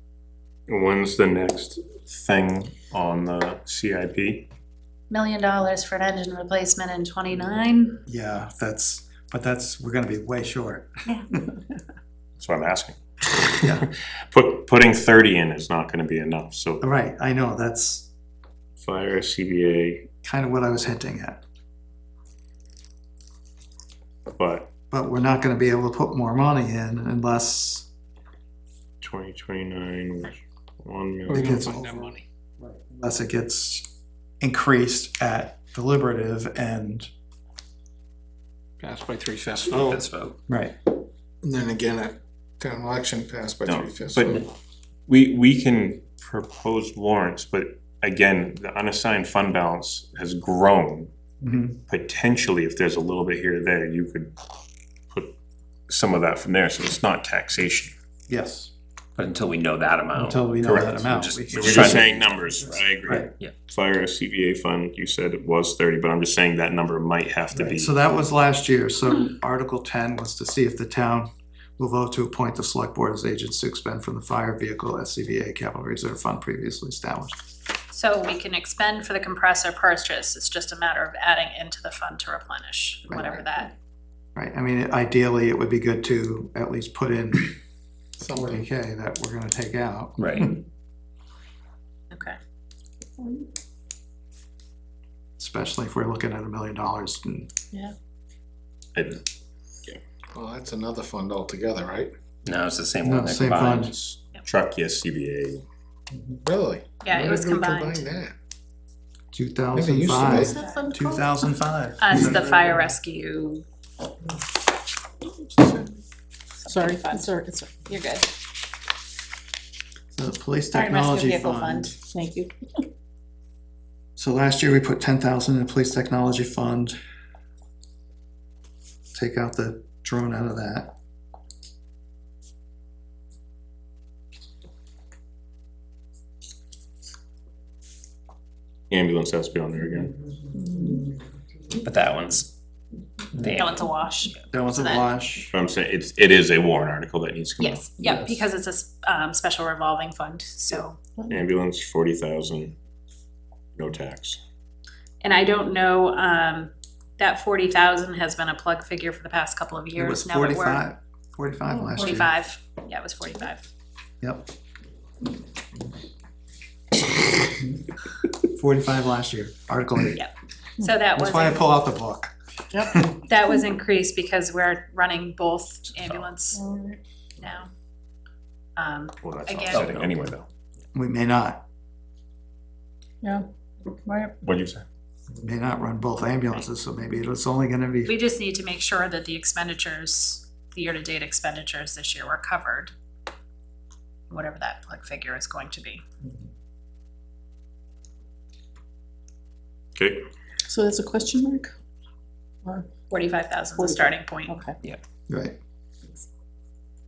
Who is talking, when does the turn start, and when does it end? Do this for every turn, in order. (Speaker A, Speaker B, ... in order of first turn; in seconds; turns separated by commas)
Speaker A: 0.7-4.5, Speaker B: 5.1-8.0, Speaker C: 8.1-11.6, Speaker A: 12.4-16.8, Speaker C: 16.8-18.1, Speaker A: 18.8-20.1, Speaker C: 20.2-21.4, Speaker A: 24.4-24.7, Speaker C: 24.9-27.9, Speaker A: 29.0-31.6, Speaker D: 31.3-32.2, Speaker C: 31.3-33.9, Speaker C: 34.4-37.1, Speaker D: 38.8-40.0, Speaker E: 39.7-40.4, Speaker C: 40.5-40.7, Speaker D: 41.4-44.4, Speaker A: 43.7-44.4, Speaker A: 45.1-51.1, Speaker C: 51.4-51.8, Speaker A: 51.9-54.3, Speaker A: 55.9-57.9, Speaker C: 58.3-58.7, Speaker E: 59.2-63.5, Speaker C: 60.2-62.1, Speaker A: 60.6-67.9, Speaker C: 67.5-77.4, Speaker B: 77.9-83.7, Speaker C: 83.1-83.4, Speaker C: 84.3-87.5, Speaker D: 88.2-88.6, Speaker C: 88.3-90.6, Speaker E: 90.2-90.5, Speaker B: 92.1-92.4, Speaker F: 93.2-93.5, Speaker C: 95.4-97.5, Speaker A: 99.0-99.2, Speaker D: 100.3-102.1, Speaker E: 102.4-104.1, Speaker C: 103.0-103.9, Speaker A: 104.4-105.6, Speaker D: 106.2-108.3, Speaker B: 107.0-108.0, Speaker C: 109.3-112.7, Speaker D: 109.7-110.6, Speaker B: 110.2-111.3, Speaker F: 110.6-111.0, Speaker B: 112.0-113.6, Speaker F: 115.6-115.8, Speaker B: 116.6-117.3, Speaker F: 116.7-117.9, Speaker B: 117.8-118.3, Speaker C: 120.1-122.0, Speaker B: 120.7-122.0, Speaker F: 122.0-122.5, Speaker C: 124.2-127.0, Speaker C: 129.1-130.9, Speaker A: 138.9-140.1, Speaker F: 140.7-141.0, Speaker E: 141.8-142.5, Speaker E: 143.3-143.8, Speaker B: 143.5-145.1, Speaker C: 144.5-145.6, Speaker A: 145.5-147.9, Speaker B: 147.6-151.0, Speaker F: 151.2-151.4, Speaker A: 151.3-152.8, Speaker A: 153.8-154.4, Speaker B: 155.2-160.9, Speaker C: 160.0-162.3, Speaker B: 161.9-163.7, Speaker C: 164.2-164.5, Speaker C: 168.5-170.2, Speaker B: 170.1-171.6, Speaker C: 171.1-173.2, Speaker F: 172.7-173.1, Speaker B: 173.2-176.6, Speaker F: 176.5-177.0, Speaker B: 177.4-177.7, Speaker B: 178.8-179.9, Speaker A: 179.2-180.5, Speaker E: 179.7-180.1, Speaker C: 180.9-181.6, Speaker F: 183.2-184.3, Speaker A: 184.4-184.8, Speaker C: 185.3-188.2, Speaker B: 188.1-192.9, Speaker B: 194.3-196.0, Speaker A: 200.0-200.3, Speaker F: 200.7-201.7, Speaker B: 203.1-204.6, Speaker F: 203.8-204.8, Speaker C: 205.3-205.6